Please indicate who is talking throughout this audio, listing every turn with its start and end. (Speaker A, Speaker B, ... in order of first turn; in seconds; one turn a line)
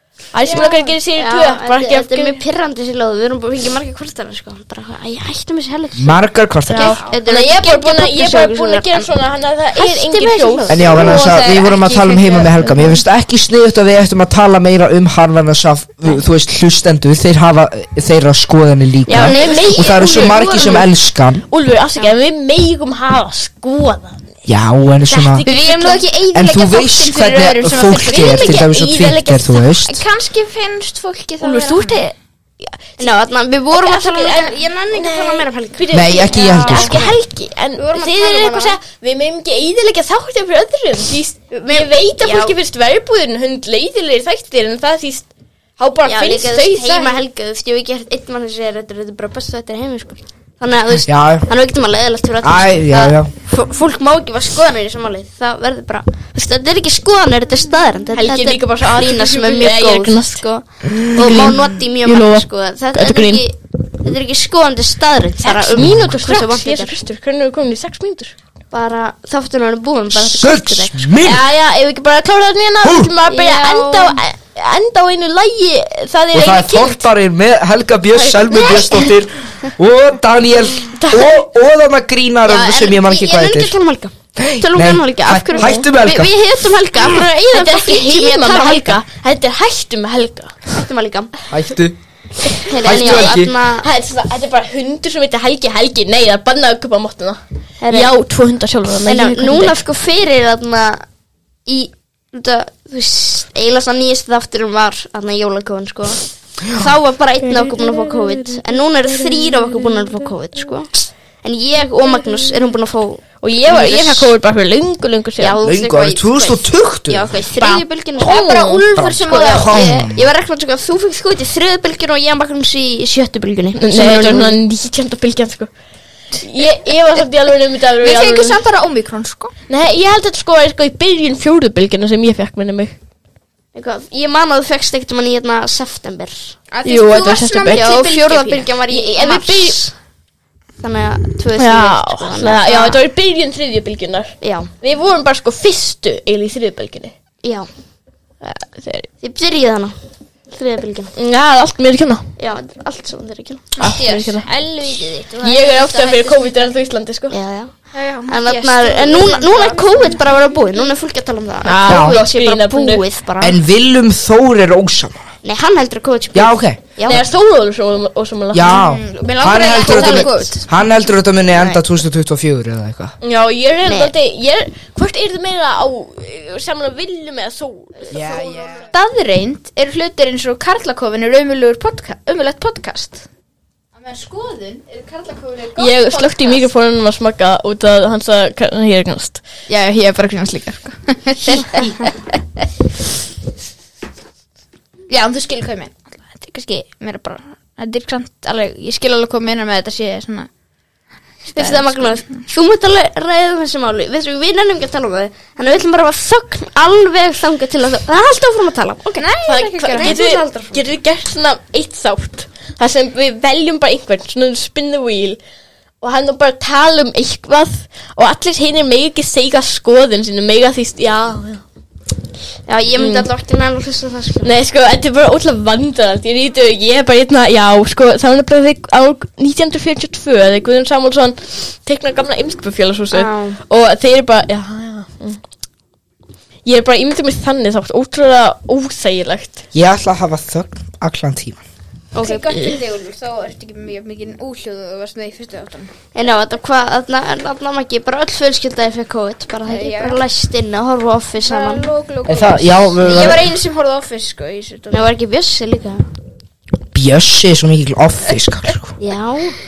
Speaker A: 0.3-2.4
Speaker B: 0.5-0.9
Speaker C: 1.2-9.1
Speaker D: 6.0-7.0
Speaker A: 6.7-11.4
Speaker B: 6.8-7.1
Speaker C: 9.8-11.2
Speaker D: 10.7-21.4
Speaker B: 11.0-13.0
Speaker A: 19.1-20.9
Speaker C: 19.1-20.6
Speaker A: 21.5-24.2
Speaker D: 24.5-25.5
Speaker A: 25.1-26.1
Speaker B: 25.4-28.6
Speaker D: 26.3-30.0
Speaker A: 28.0-29.7
Speaker B: 29.8-32.1
Speaker A: 31.4-32.1
Speaker C: 33.0-36.2
Speaker A: 33.7-45.3
Speaker D: 35.9-37.1
Speaker C: 37.8-38.8
Speaker C: 41.5-42.5
Speaker A: 45.8-47.2
Speaker C: 46.0-66.9
Speaker D: 51.0-51.5
Speaker D: 52.4-53.3
Speaker A: 58.1-60.4
Speaker A: 61.2-63.4
Speaker A: 65.4-68.3
Speaker D: 65.8-66.1
Speaker C: 68.7-71.1
Speaker D: 70.1-71.4
Speaker A: 71.2-77.1
Speaker D: 72.8-73.1
Speaker C: 73.2-74.2
Speaker D: 76.3-83.8
Speaker A: 78.2-79.1
Speaker C: 78.6-78.8
Speaker A: 81.0-81.3
Speaker C: 82.5-89.0
Speaker D: 84.4-86.3
Speaker A: 85.6-85.8
Speaker A: 87.2-90.5
Speaker C: 90.7-91.3
Speaker D: 91.5-92.0
Speaker A: 92.5-97.4
Speaker C: 92.7-93.9
Speaker D: 92.8-93.5
Speaker C: 97.8-98.1
Speaker A: 97.9-99.8
Speaker C: 99.0-101.0
Speaker C: 101.7-110.9
Speaker A: 107.4-110.3
Speaker C: 111.4-114.3
Speaker A: 113.4-115.6
Speaker C: 115.4-124.6
Speaker D: 115.6-117.3
Speaker B: 117.6-119.8
Speaker A: 118.2-118.8
Speaker D: 119.0-120.3
Speaker A: 123.8-125.7
Speaker A: 126.4-128.6
Speaker B: 128.0-129.5
Speaker A: 129.7-133.0
Speaker C: 133.7-136.6
Speaker B: 136.7-138.7
Speaker A: 136.8-137.9
Speaker C: 137.7-139.9
Speaker A: 138.9-139.8
Speaker C: 140.8-143.0
Speaker A: 141.6-147.1
Speaker C: 144.4-144.7
Speaker C: 147.4-147.7
Speaker A: 148.4-149.1
Speaker C: 149.2-149.9
Speaker C: 150.5-151.1
Speaker A: 151.2-152.2
Speaker C: 152.4-153.7
Speaker B: 153.8-156.7
Speaker A: 153.8-154.5
Speaker A: 155.4-157.4
Speaker C: 157.3-157.7
Speaker B: 157.9-160.2
Speaker C: 158.3-163.6
Speaker A: 161.6-163.0
Speaker D: 161.9-162.2
Speaker D: 163.4-165.3
Speaker C: 165.4-167.2
Speaker D: 166.3-167.2
Speaker A: 167.1-168.8
Speaker D: 168.5-173.2
Speaker B: 168.6-170.7
Speaker C: 169.7-170.5
Speaker C: 171.6-171.8
Speaker A: 173.2-178.1
Speaker C: 173.9-174.1
Speaker C: 178.1-178.8
Speaker D: 178.1-178.9
Speaker B: 178.9-183.2
Speaker B: 183.9-186.7
Speaker A: 185.8-189.4
Speaker B: 189.7-192.2
Speaker B: 195.1-200.5
Speaker C: 201.5-209.3
Speaker B: 201.5-202.3
Speaker B: 209.2-210.2
Speaker A: 209.5-215.4
Speaker C: 209.9-210.8
Speaker A: 216.0-221.6
Speaker C: 222.7-224.5
Speaker A: 223.0-223.3
Speaker A: 224.4-235.4
Speaker C: 233.1-233.6
Speaker A: 236.7-239.6
Speaker D: 239.7-241.6
Speaker C: 242.1-242.8
Speaker B: 242.2-245.9
Speaker C: 246.1-251.9
Speaker B: 249.7-250.2
Speaker B: 251.4-255.1
Speaker D: 252.3-253.5
Speaker C: 254.9-256.0
Speaker D: 256.9-258.9
Speaker C: 259.0-259.6